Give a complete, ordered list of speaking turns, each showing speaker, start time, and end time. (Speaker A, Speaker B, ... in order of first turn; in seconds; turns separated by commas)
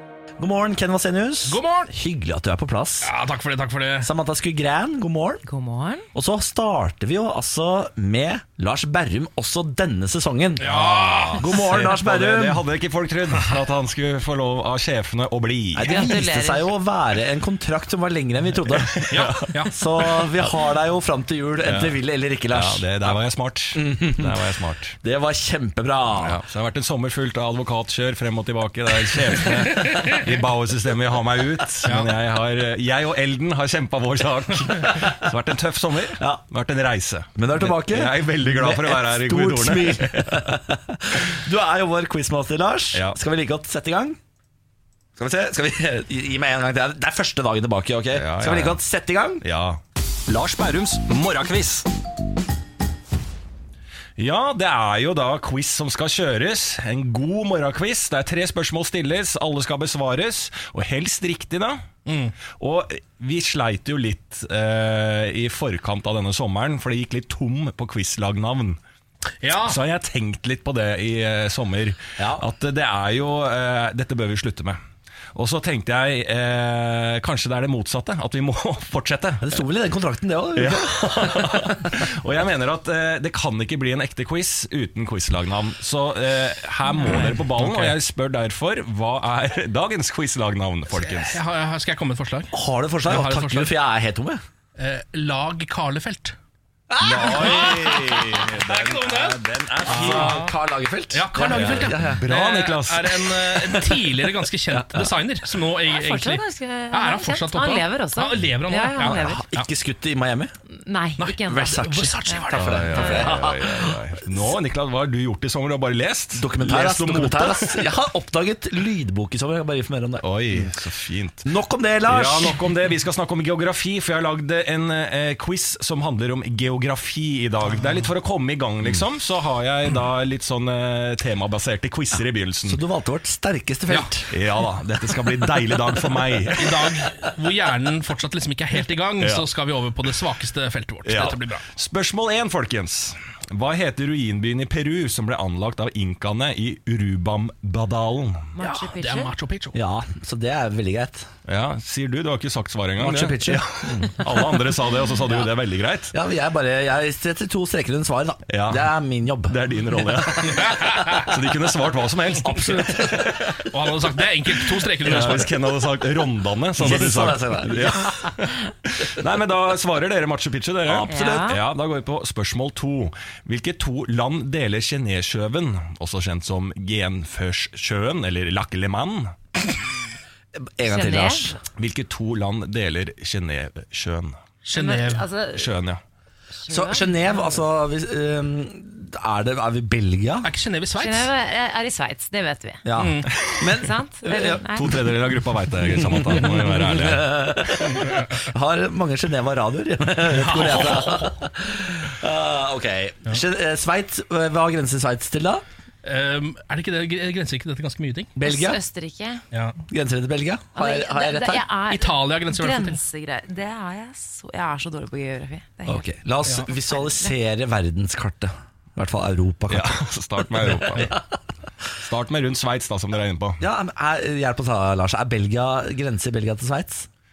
Speaker A: 0.4-3.1, Speaker B: 1.5-1.9, Speaker B: 3.0-4.1, Speaker A: 4.0-5.4, Speaker C: 5.5-6.1, Speaker A: 6.1-10.8, Speaker B: 10.6-11.6, Speaker D: 10.6-16.1, Speaker A: 11.3-12.7, Speaker A: 15.7-23.2, Speaker C: 15.8-16.7, Speaker D: 18.8-19.6, Speaker B: 19.1-19.7, Speaker D: 21.6-22.0, Speaker D: 22.5-25.0, Speaker A: 23.7-26.4, Speaker D: 26.2-40.5, Speaker B: 31.9-32.1, Speaker A: 36.2-36.4, Speaker A: 37.4-44.2, Speaker A: 45.2-49.5, Speaker D: 48.1-48.8, Speaker D: 49.4-51.9, Speaker D: 54.2-61.8, Speaker B: 62.1-62.4, Speaker D: 62.5-68.8, Speaker B: 69.4-69.8, Speaker D: 69.6-74.8, Speaker A: 72.2-72.5, Speaker D: 75.3-79.5, Speaker A: 79.4-82.0, Speaker D: 80.5-91.4, Speaker B: 87.0-88.0, Speaker B: 91.0-92.5, Speaker A: 92.5-94.4, Speaker B: 93.1-93.7, Speaker B: 94.8-96.4, Speaker A: 96.9-98.4, Speaker D: 97.0-100.4, Speaker B: 97.3-100.5, Speaker A: 99.8-102.2, Speaker B: 101.1-109.7, Speaker D: 101.5-103.8, Speaker A: 104.7-105.1, Speaker C: 105.9-109.4, Speaker A: 109.0-110.5, Speaker C: 110.7-113.4, Speaker B: 111.2-113.2, Speaker A: 111.5-114.5, Speaker D: 112.6-117.9, Speaker A: 116.3-120.8, Speaker D: 120.2-121.5, Speaker A: 121.5-122.6, Speaker D: 122.0-132.8, Speaker A: 132.6-134.3, Speaker D: 134.3-137.0, Speaker B: 136.6-141.7, Speaker D: 139.2-139.5, Speaker D: 141.1-148.5, Speaker C: 148.5-149.3, Speaker B: 148.6-149.8, Speaker A: 149.7-151.3, Speaker D: 151.5-156.1, Speaker A: 153.0-154.8, Speaker A: 156.1-161.2, Speaker D: 158.5-158.9, Speaker D: 159.5-163.6, Speaker B: 160.5-161.3, Speaker A: 162.4-163.5, Speaker B: 162.8-165.5, Speaker D: 164.6-179.4, Speaker A: 165.1-165.5, Speaker A: 166.8-168.2, Speaker A: 170.9-171.5, Speaker C: 171.1-171.6, Speaker A: 180.6-181.6, Speaker C: 180.9-181.6, Speaker D: 181.8-184.4, Speaker C: 184.7-185.7, Speaker B: 184.7-185.3, Speaker D: 185.6-186.0, Speaker C: 186.6-187.6, Speaker A: 186.7-190.5, Speaker B: 190.4-191.3, Speaker C: 191.0-192.8, Speaker A: 192.8-194.7, Speaker B: 193.0-193.3, Speaker C: 193.8-194.9, Speaker D: 194.7-197.4, Speaker A: 195.9-205.6, Speaker B: 200.3-201.4, Speaker B: 206.0-208.3, Speaker A: 208.4-208.8, Speaker C: 208.4-209.4, Speaker A: 209.9-211.7, Speaker C: 210.8-216.1, Speaker B: 211.9-213.0, Speaker A: 215.9-221.2, Speaker C: 216.9-217.3, Speaker D: 219.7-221.2, Speaker D: 222.0-223.6, Speaker A: 223.6-227.1